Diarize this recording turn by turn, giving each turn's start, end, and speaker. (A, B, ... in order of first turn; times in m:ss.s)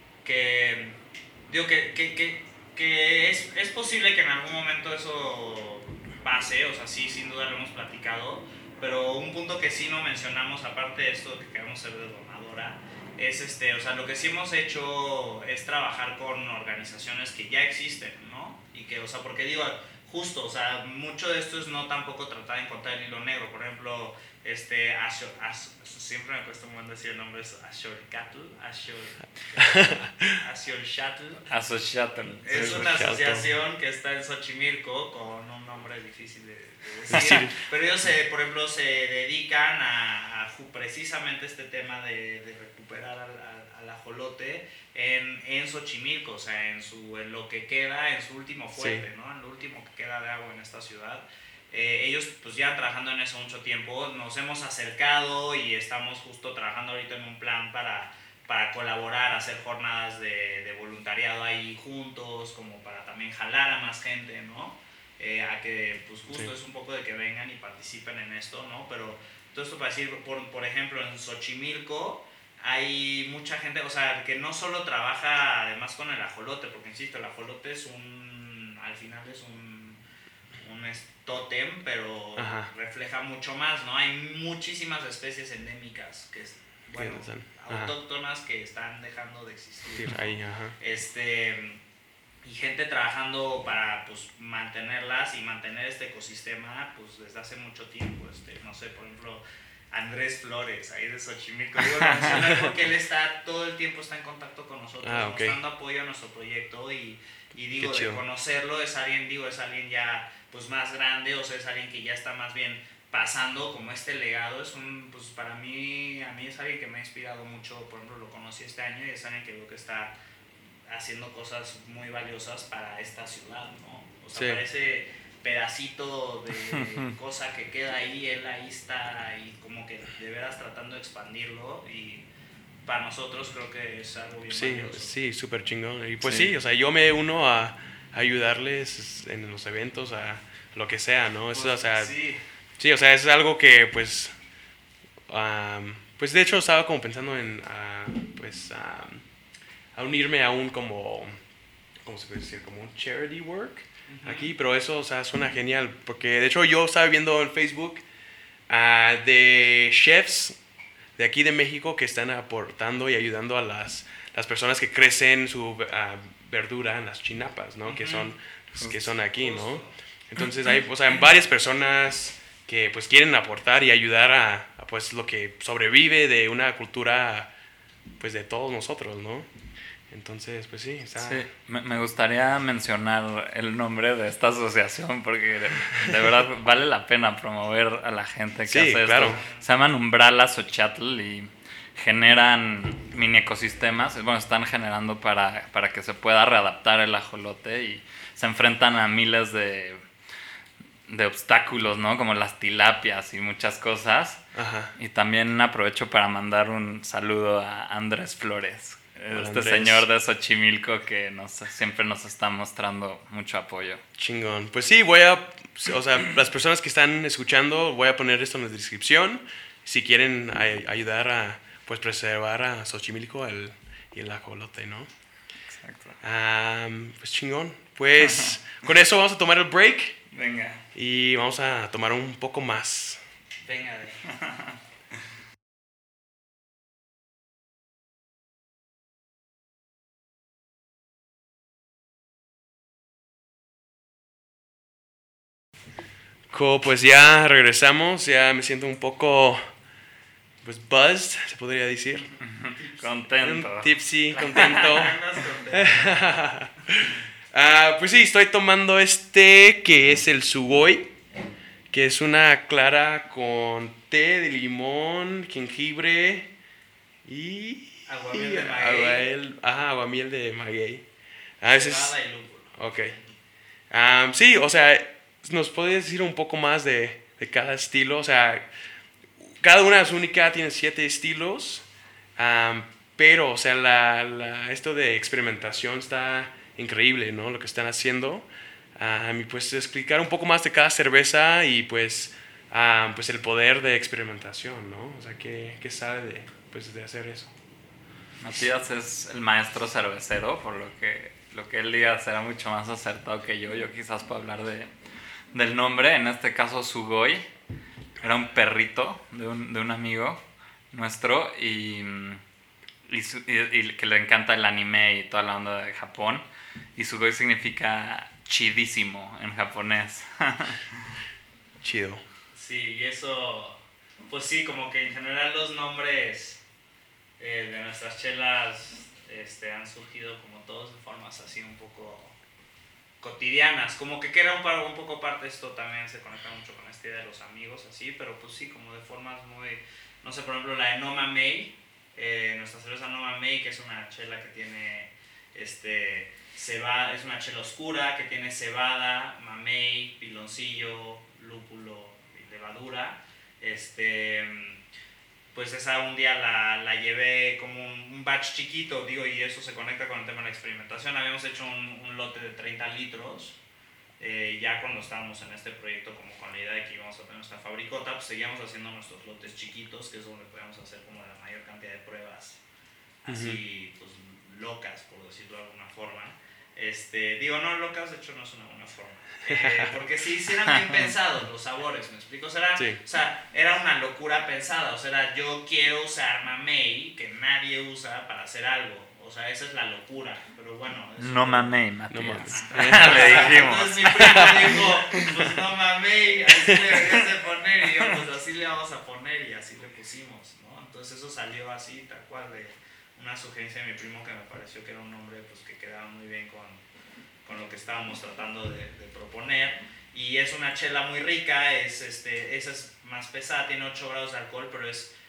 0:00.2-0:31.5 A
0:29.6-0:30.4 B
0:31.5-0:32.8 C
0:32.4-1:20.0 A
0:32.5-0:33.5 B
0:37.1-0:37.6 B
0:37.1-0:37.4 C
0:48.8-0:49.1 B
1:20.6-1:31.8 A
1:22.4-1:22.7 B
1:27.0-1:27.9 B
1:30.0-1:30.8 B
1:32.4-2:00.1 A
1:42.3-1:42.7 B
1:45.0-1:45.6 B
1:47.8-1:48.2 B
2:00.9-2:12.3 A
2:04.3-2:04.6 B
2:12.9-2:15.1 A
2:14.5-2:22.2 B
2:16.2-2:16.5 A
2:21.5-2:22.4 A
2:22.8-2:24.4 B
2:25.3-2:29.3 B
2:29.9-2:31.4 B
2:32.0-2:38.0 B
2:34.1-2:34.5 A
2:38.7-2:40.6 B
2:41.2-2:57.5 B
2:47.8-2:48.3 A
2:48.8-2:49.1 C
2:49.1-2:49.9 A
2:58.2-2:59.5 B
3:00.1-3:01.5 B
3:01.2-3:20.0 C
3:08.7-3:09.4 B
3:09.1-3:09.7 A
3:21.1-3:24.4 C
3:24.6-3:24.9 B
3:25.0-3:34.0 C
3:29.3-3:30.1 B
3:34.2-3:45.1 B
3:45.7-3:46.2 C
3:46.2-3:50.2 B
3:50.3-3:50.8 A
3:50.9-3:53.2 B
3:53.6-3:54.4 A
4:06.5-4:09.7 B
4:10.6-4:12.3 B
4:12.4-4:15.1 C
4:13.4-4:15.2 B
4:14.3-4:16.4 A
4:15.7-4:21.1 B
4:21.9-4:26.5 B
4:27.2-4:31.0 B
4:28.1-4:29.3 A
4:31.6-4:32.2 B
4:31.7-4:33.3 A
4:32.7-4:33.2 B
4:33.9-4:38.7 B
4:39.4-4:57.5 B
4:58.4-5:04.9 C
5:05.5-5:07.4 C
5:08.2-5:12.4 C
5:13.1-5:21.1 C
5:21.8-5:22.2 B
5:22.5-5:26.6 A
5:27.4-5:32.4 A
5:33.2-5:54.8 A
5:55.5-6:03.6 A
6:04.2-6:12.6 A
6:13.2-6:31.8 A
6:13.3-6:13.6 B
6:19.5-6:20.0 B
6:31.2-6:34.9 C
6:32.1-6:34.9 B
6:32.5-6:46.8 A
6:47.4-6:55.1 A